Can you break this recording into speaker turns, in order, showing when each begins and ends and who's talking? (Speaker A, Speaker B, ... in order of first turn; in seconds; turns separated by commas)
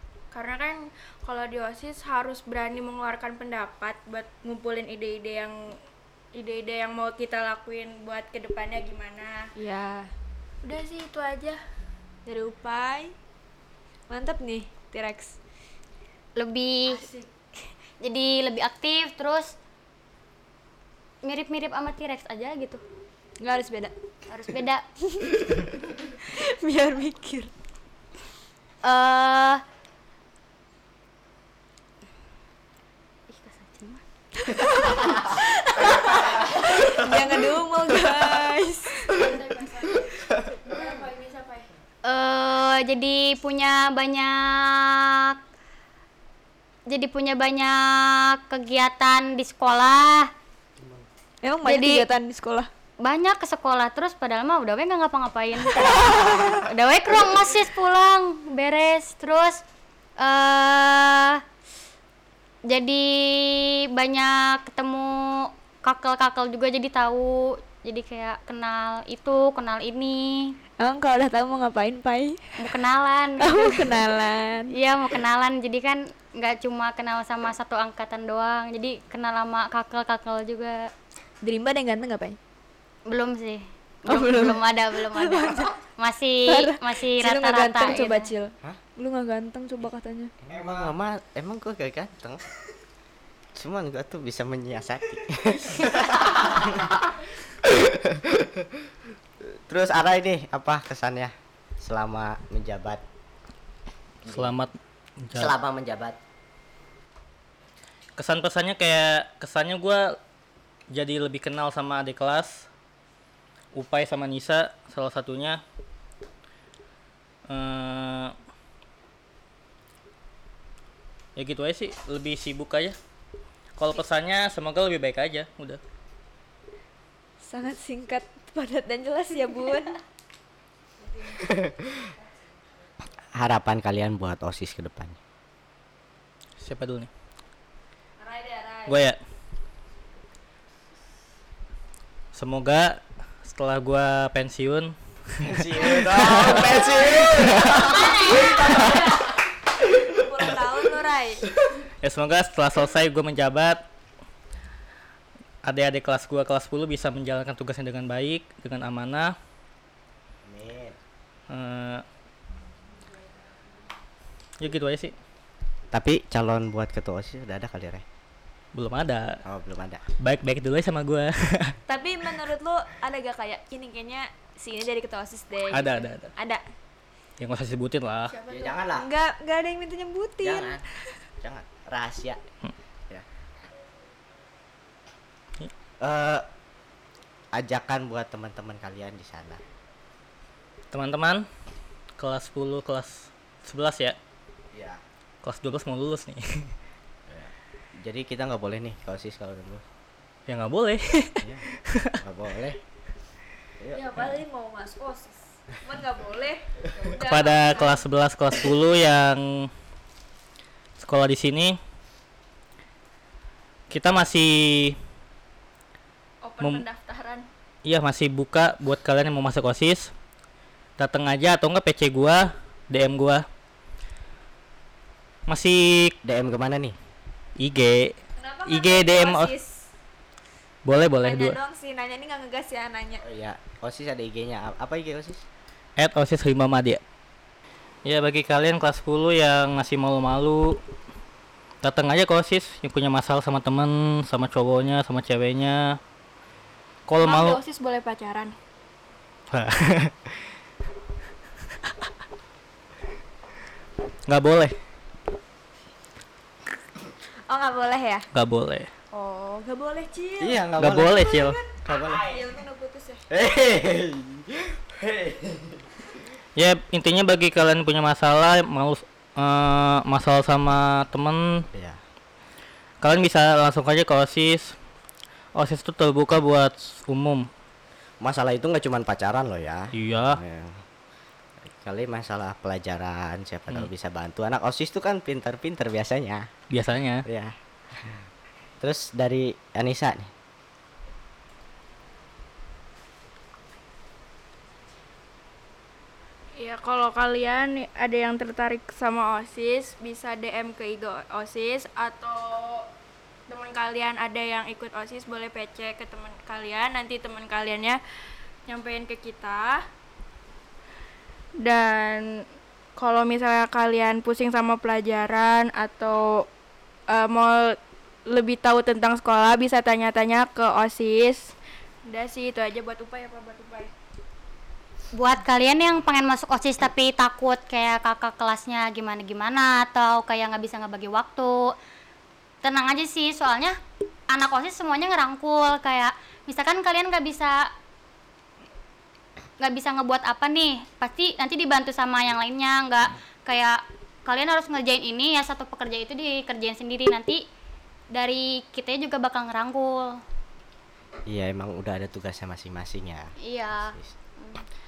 Speaker A: 0.3-5.8, Speaker A: 6.3-9.4, Speaker B: 9.6-10.1, Speaker A: 10.6-11.6, Speaker B: 12.3-13.1, Speaker B: 14.1-15.4, Speaker C: 16.4-17.0, Speaker A: 16.9-17.3, Speaker C: 18.0-19.6, Speaker C: 21.2-22.8, Speaker B: 23.4-23.9, Speaker C: 24.3-24.8, Speaker B: 25.1-25.6, Speaker B: 26.1-27.5, Speaker C: 28.8-29.6, Speaker C: 33.3-34.0, Speaker B: 34.5-39.2, Speaker A: 39.1-41.7, Speaker C: 42.0-45.4, Speaker C: 46.9-50.3, Speaker B: 51.4-52.7, Speaker C: 51.6-52.1, Speaker C: 53.0-59.6, Speaker B: 55.9-56.5, Speaker C: 60.2-61.4, Speaker C: 62.7-70.5, Speaker B: 70.8-72.5, Speaker C: 72.6-74.1, Speaker B: 73.4-74.8, Speaker C: 74.7-80.9, Speaker B: 81.4-82.4, Speaker C: 83.1-88.3, Speaker B: 84.1-85.8, Speaker B: 86.5-90.3, Speaker D: 90.5-92.4, Speaker D: 93.5-97.0, Speaker D: 97.6-98.8, Speaker D: 99.7-103.0, Speaker D: 104.2-104.6, Speaker E: 104.3-105.6, Speaker D: 105.3-106.2, Speaker E: 108.2-110.1, Speaker E: 110.9-112.7, Speaker E: 113.7-115.6, Speaker E: 117.5-118.3, Speaker E: 121.4-123.0, Speaker E: 123.8-125.8, Speaker B: 127.4-130.0, Speaker B: 131.0-131.6, Speaker D: 131.6-131.9, Speaker D: 133.4-135.2, Speaker E: 136.6-137.1, Speaker B: 138.2-139.1, Speaker E: 138.9-139.2, Speaker E: 142.3-147.8, Speaker D: 145.4-149.1, Speaker C: 148.0-148.9, Speaker B: 148.0-149.2, Speaker B: 150.0-151.5, Speaker E: 152.0-153.8, Speaker E: 155.6-159.3, Speaker D: 160.4-161.0, Speaker E: 161.5-162.0, Speaker E: 164.6-165.1, Speaker D: 165.9-168.0, Speaker E: 168.8-169.4, Speaker D: 169.4-170.0, Speaker E: 170.2-171.8, Speaker B: 171.9-176.6, Speaker E: 175.7-176.3, Speaker E: 177.4-178.4, Speaker A: 178.3-178.9, Speaker D: 178.5-179.1, Speaker B: 178.9-181.1, Speaker D: 180.4-180.8, Speaker D: 181.4-182.4, Speaker D: 186.0-186.5, Speaker D: 187.5-189.6, Speaker E: 190.9-191.4, Speaker E: 192.2-194.2, Speaker D: 194.7-195.0, Speaker E: 195.4-196.7, Speaker D: 197.3-199.8, Speaker E: 200.5-202.2, Speaker D: 201.4-201.7, Speaker D: 202.2-202.8, Speaker D: 203.8-204.1, Speaker B: 203.9-208.0, Speaker E: 207.2-209.7, Speaker E: 211.0-211.8, Speaker E: 213.9-215.0, Speaker A: 216.4-217.5, Speaker E: 217.8-220.1, Speaker E: 221.0-223.4, Speaker E: 225.5-226.2, Speaker D: 226.2-227.0, Speaker E: 227.6-229.5, Speaker B: 228.4-229.9, Speaker E: 230.8-231.6, Speaker B: 231.2-233.2, Speaker D: 233.2-235.5, Speaker E: 236.0-237.0, Speaker E: 238.1-240.8, Speaker E: 241.8-246.0, Speaker E: 247.1-247.6, Speaker A: 247.2-248.5, Speaker E: 249.5-250.2, Speaker E: 254.3-254.7, Speaker B: 257.5-258.3, Speaker E: 258.3-258.9, Speaker B: 259.1-263.3, Speaker D: 260.4-262.4, Speaker E: 260.8-261.6, Speaker D: 263.3-265.9, Speaker E: 266.6-271.7, Speaker D: 271.7-272.0, Speaker E: 273.0-274.8, Speaker E: 275.6-277.5, Speaker D: 278.2-280.8, Speaker E: 279.9-280.4, Speaker D: 281.7-286.5, Speaker E: 286.7-287.2, Speaker D: 287.3-288.3, Speaker D: 288.8-290.3, Speaker A: 296.6-302.9, Speaker A: 303.5-308.0, Speaker A: 308.7-309.8, Speaker A: 311.6-312.4, Speaker A: 313.0-316.5, Speaker A: 317.1-321.5, Speaker A: 322.1-323.9, Speaker C: 325.1-331.7, Speaker C: 332.6-333.8, Speaker C: 334.3-337.7, Speaker C: 339.6-347.4, Speaker C: 348.1-350.2, Speaker D: 351.3-354.1, Speaker C: 353.4-354.6